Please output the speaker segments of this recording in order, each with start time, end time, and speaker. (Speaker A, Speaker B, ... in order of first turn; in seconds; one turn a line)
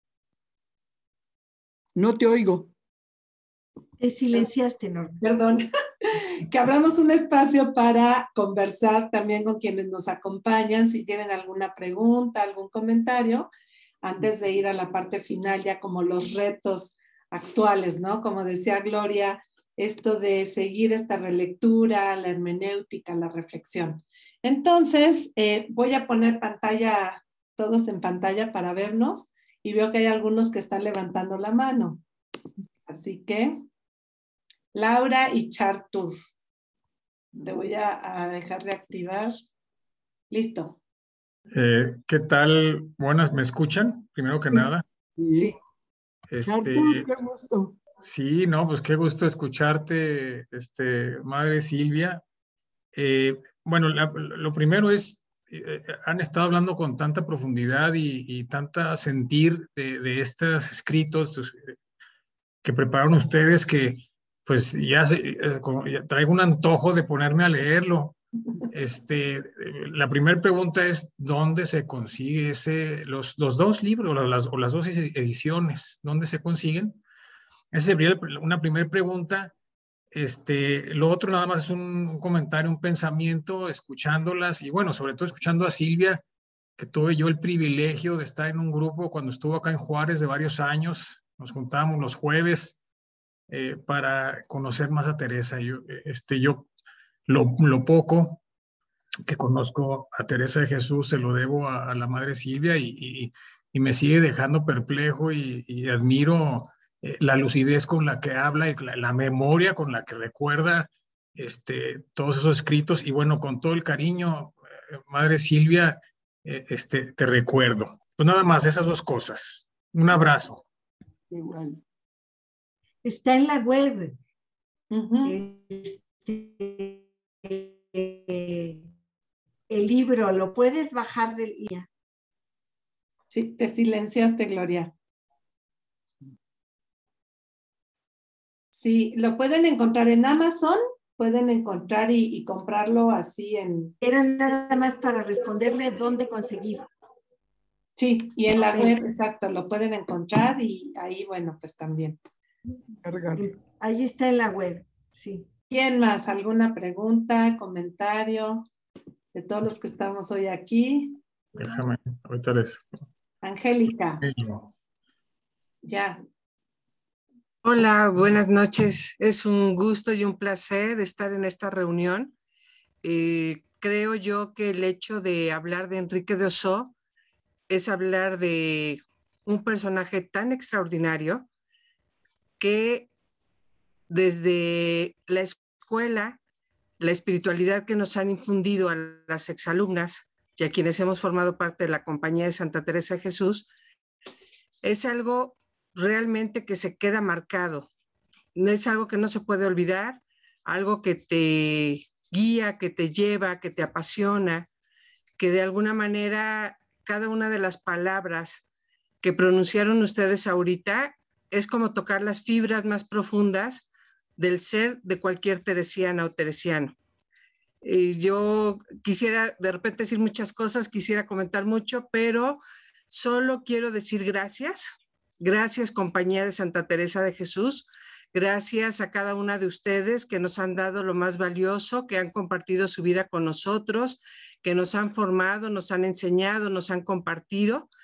Speaker A: 1.9-2.7
Speaker B: 4.0-5.2
Speaker C: 5.2-13.5
Speaker C: 14.0-32.0
Speaker C: 32.9-33.6
Speaker C: 34.7-36.1
Speaker C: 37.4-39.3
Speaker C: 40.3-40.8
Speaker D: 41.5-44.8
Speaker A: 45.2-45.5
Speaker D: 46.3-47.1
Speaker A: 46.4-47.8
Speaker D: 48.0-52.2
Speaker D: 52.9-61.7
Speaker D: 62.6-68.2
Speaker D: 68.7-77.0
Speaker D: 77.7-79.5
Speaker D: 80.1-86.2
Speaker D: 86.8-92.8
Speaker D: 93.5-96.7
Speaker D: 97.3-98.4
Speaker D: 99.3-120.6
Speaker A: 121.3-121.8
Speaker B: 123.0-124.2
Speaker C: 124.9-125.4
Speaker B: 125.2-128.9
Speaker B: 129.7-131.9
Speaker C: 133.3-134.9
Speaker C: 138.7-143.9
Speaker B: 144.0-146.9
Speaker C: 148.0-152.2
Speaker B: 148.6-149.0
Speaker A: 153.0-153.4
Speaker B: 153.3-155.5
Speaker C: 155.7-158.7
Speaker C: 159.3-161.2
Speaker D: 161.6-162.8
Speaker C: 163.4-164.2
Speaker D: 164.2-164.6
Speaker C: 165.8-166.2
Speaker E: 167.6-172.3
Speaker E: 173.0-176.9
Speaker E: 177.7-181.4
Speaker E: 182.6-183.1
Speaker E: 184.1-186.4
Speaker E: 187.0-193.7
Speaker E: 194.8-197.9
Speaker E: 198.5-204.7
Speaker E: 205.4-208.6
Speaker E: 209.2-216.9
Speaker E: 217.8-237.9